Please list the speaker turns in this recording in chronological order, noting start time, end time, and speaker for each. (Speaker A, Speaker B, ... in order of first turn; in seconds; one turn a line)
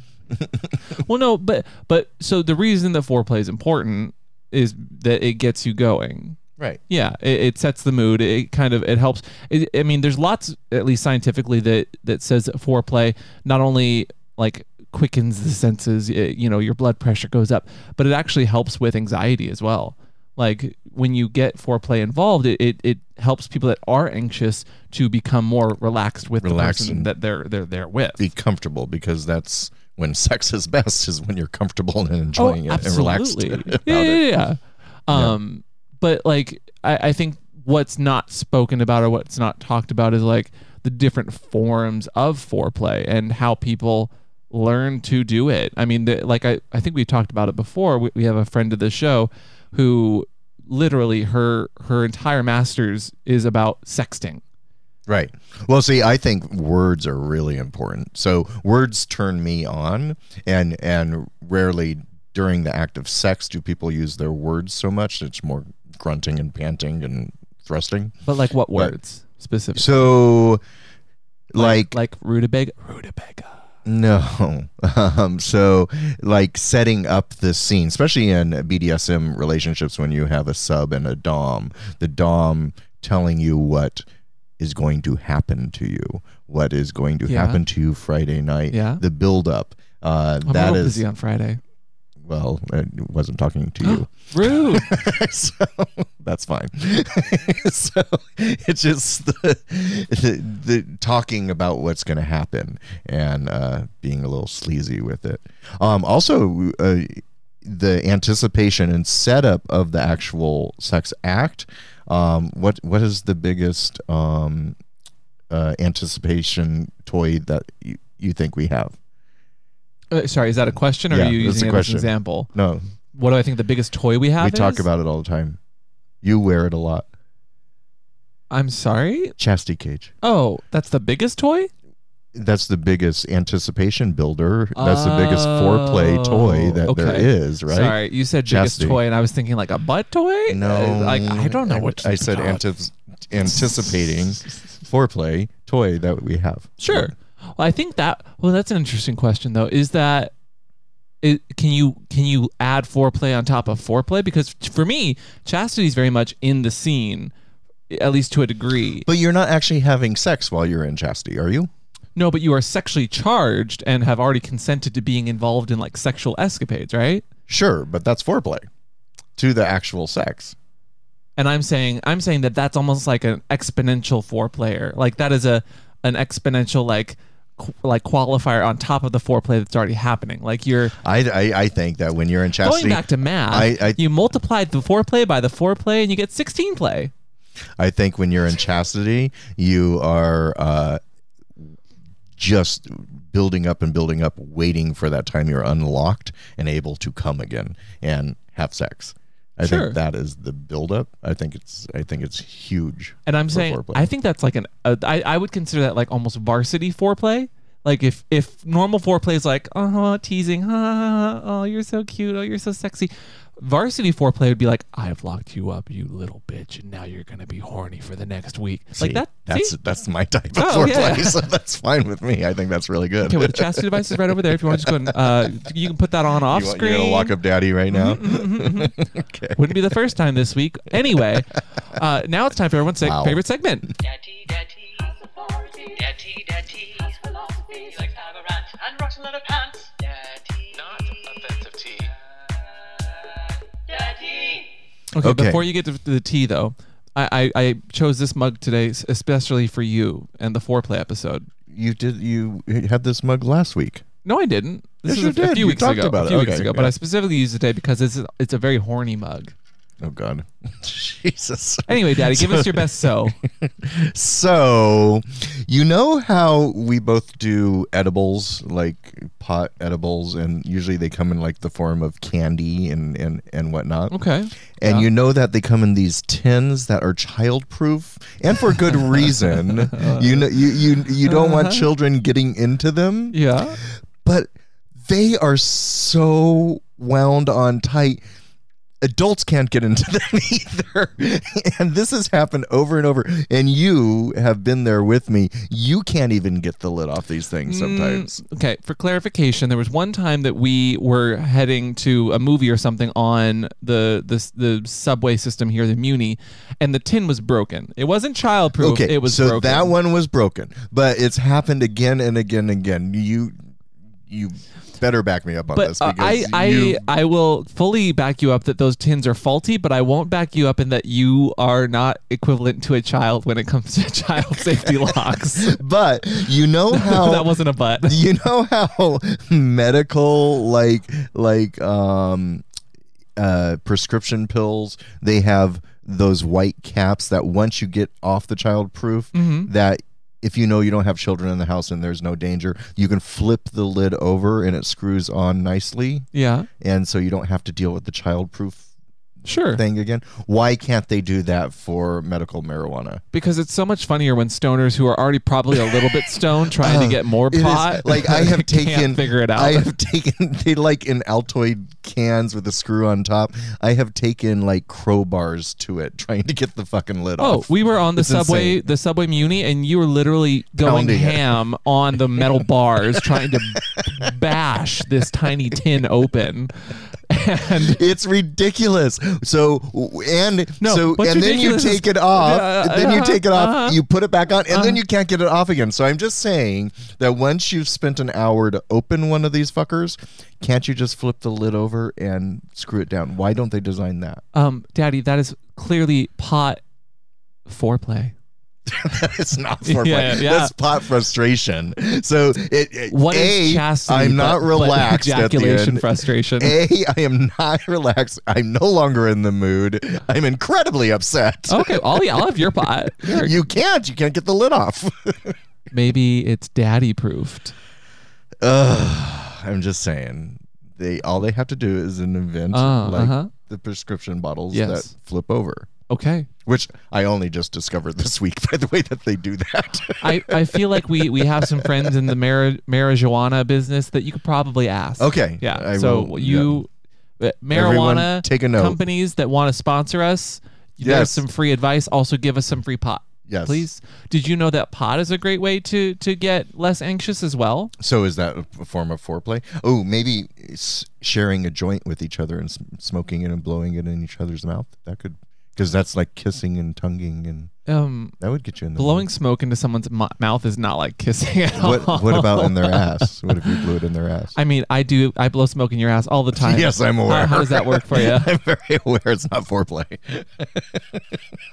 Speaker A: 0.3-1.0
Speaker B: 1.0-6.4
Speaker B: 6.9-28.3
Speaker A: 26.4-27.1
Speaker A: 28.2-34.3
Speaker B: 32.4-54.4
Speaker A: 35.1-35.4
Speaker A: 55.1-68.2
Speaker B: 68.2-70.1
Speaker A: 69.8-70.6
Speaker A: 71.5-72.0
Speaker B: 71.6-73.5
Speaker A: 73.9-84.0
Speaker A: 84.6-91.0
Speaker B: 87.3-87.6
Speaker B: 88.7-89.0
Speaker B: 90.5-91.6
Speaker A: 92.2-114.8
Speaker B: 93.8-94.9
Speaker A: 115.5-119.0
Speaker B: 120.1-122.5
Speaker A: 121.1-122.8
Speaker B: 123.1-124.9
Speaker A: 124.4-125.6
Speaker A: 126.2-127.1
Speaker B: 128.5-129.3
Speaker A: 129.4-130.1
Speaker B: 130.2-131.7
Speaker A: 132.3-139.0
Speaker B: 134.8-142.6
Speaker A: 140.5-147.1
Speaker B: 146.8-150.3
Speaker B: 151.2-157.3
Speaker B: 157.9-159.1
Speaker A: 159.1-161.7
Speaker B: 162.2-167.2
Speaker A: 167.5-168.7
Speaker A: 169.4-170.6
Speaker B: 171.4-180.9
Speaker A: 181.0-184.0
Speaker B: 182.6-187.1
Speaker A: 187.8-191.0
Speaker A: 192.4-204.0
Speaker B: 199.6-200.0
Speaker B: 203.3-219.7
Speaker A: 219.0-225.5
Speaker B: 220.5-221.4
Speaker B: 223.2-227.3
Speaker A: 226.5-230.0
Speaker B: 227.9-228.9
Speaker B: 229.6-233.9
Speaker A: 233.0-233.4
Speaker C: 234.0-244.8
Speaker B: 245.1-251.5
Speaker A: 245.2-245.6
Speaker A: 251.7-254.0
Speaker B: 254.2-259.5
Speaker A: 255.1-256.9
Speaker A: 260.0-274.2
Speaker B: 261.9-263.4
Speaker B: 274.1-275.1
Speaker A: 274.8-288.2
Speaker B: 279.1-280.6
Speaker B: 281.2-281.9
Speaker B: 283.3-283.8
Speaker A: 289.0-298.4
Speaker B: 297.7-309.9
Speaker A: 308.8-313.6
Speaker A: 314.3-317.0
Speaker B: 315.7-325.8
Speaker A: 325.6-332.6
Speaker B: 326.9-328.2
Speaker A: 333.4-346.3
Speaker B: 339.3-339.7
Speaker B: 346.3-346.7
Speaker A: 346.8-348.9
Speaker B: 349.4-349.8
Speaker A: 349.7-353.2
Speaker B: 353.3-359.9
Speaker A: 356.7-368.8
Speaker B: 367.4-378.0
Speaker A: 370.8-371.4
Speaker A: 373.2-374.4
Speaker A: 377.7-394.4
Speaker B: 380.8-384.0
Speaker B: 384.7-385.0
Speaker B: 394.5-396.8
Speaker B: 397.7-398.3
Speaker A: 398.9-415.6
Speaker B: 399.8-400.7
Speaker B: 403.1-406.8
Speaker B: 411.7-413.6
Speaker B: 415.9-417.7
Speaker A: 418.6-425.9
Speaker B: 422.7-423.5
Speaker B: 424.7-425.1
Speaker B: 426.1-426.5
Speaker A: 426.6-432.3
Speaker B: 430.2-447.9
Speaker A: 435.2-436.8
Speaker A: 437.7-439.0
Speaker A: 441.0-441.4
Speaker A: 443.5-443.9
Speaker A: 448.0-457.7
Speaker B: 457.9-458.4
Speaker A: 458.4-459.3
Speaker B: 459.0-463.8
Speaker A: 461.8-464.6
Speaker B: 464.6-468.5
Speaker A: 466.6-471.4